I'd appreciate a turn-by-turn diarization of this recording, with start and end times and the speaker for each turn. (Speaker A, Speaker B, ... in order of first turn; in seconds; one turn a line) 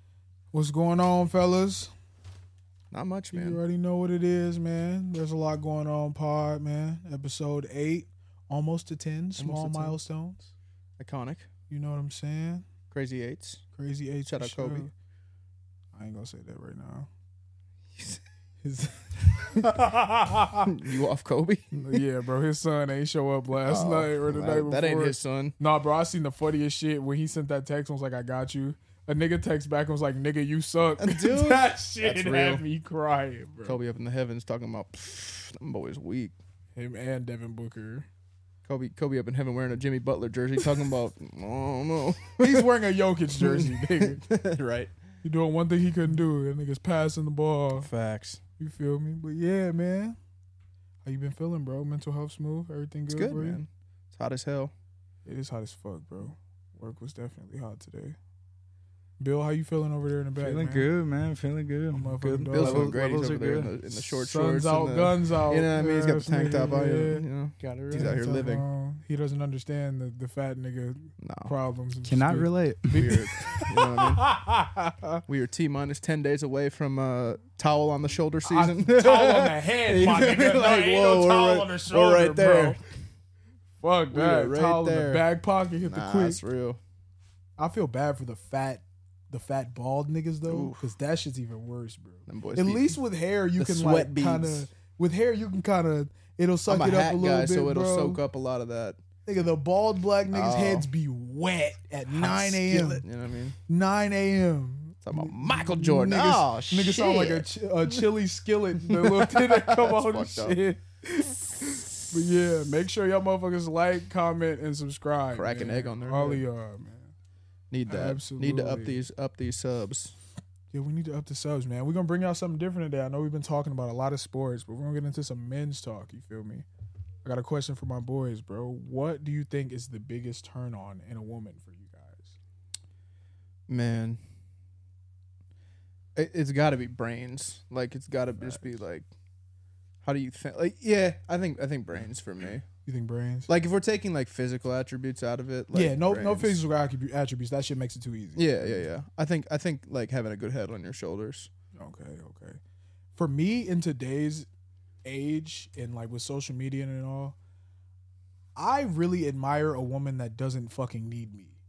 Speaker A: 0.5-1.9
Speaker B: 2.9-3.6
Speaker A: 3.3-10.5
Speaker B: 9.4-10.0
Speaker B: 11.0-11.5
Speaker A: 11.7-12.6
Speaker B: 12.9-13.6
Speaker A: 13.7-14.9
Speaker B: 14.3-14.8
Speaker A: 15.9-17.1
Speaker B: 17.9-18.2
Speaker A: 18.6-20.7
Speaker B: 20.6-21.7
Speaker A: 21.7-33.8
Speaker B: 23.6-25.5
Speaker B: 31.0-32.6
Speaker B: 33.6-36.3
Speaker A: 36.7-38.1
Speaker B: 38.6-42.6
Speaker A: 42.4-44.2
Speaker B: 43.4-44.9
Speaker A: 45.2-47.9
Speaker B: 47.8-48.4
Speaker A: 48.6-50.2
Speaker A: 51.0-53.6
Speaker B: 53.1-54.7
Speaker A: 55.2-58.1
Speaker A: 59.2-60.9
Speaker C: 60.4-63.7
Speaker A: 61.9-62.9
Speaker B: 62.5-68.6
Speaker A: 64.2-67.2
Speaker C: 67.6-68.2
Speaker A: 67.9-75.2
Speaker B: 71.2-71.5
Speaker C: 72.0-73.1
Speaker B: 72.9-74.2
Speaker B: 75.3-82.8
Speaker A: 78.4-82.8
Speaker A: 83.8-86.4
Speaker B: 84.1-85.2
Speaker B: 85.8-86.8
Speaker A: 87.6-98.2
Speaker B: 90.5-90.9
Speaker B: 92.3-93.0
Speaker B: 93.6-94.7
Speaker B: 96.7-99.0
Speaker A: 99.2-103.0
Speaker B: 100.3-100.9
Speaker B: 102.1-103.6
Speaker A: 103.7-117.1
Speaker B: 105.0-108.0
Speaker B: 108.8-110.5
Speaker B: 111.6-111.9
Speaker B: 115.3-116.4
Speaker B: 117.7-120.1
Speaker A: 117.9-119.0
Speaker A: 120.7-126.6
Speaker A: 127.2-132.3
Speaker B: 133.7-134.2
Speaker B: 136.2-139.1
Speaker B: 140.0-142.6
Speaker A: 142.8-143.5
Speaker B: 143.5-146.6
Speaker A: 145.7-148.9
Speaker B: 148.3-151.5
Speaker A: 151.7-152.6
Speaker A: 153.2-154.5
Speaker A: 155.0-157.3
Speaker A: 158.6-161.6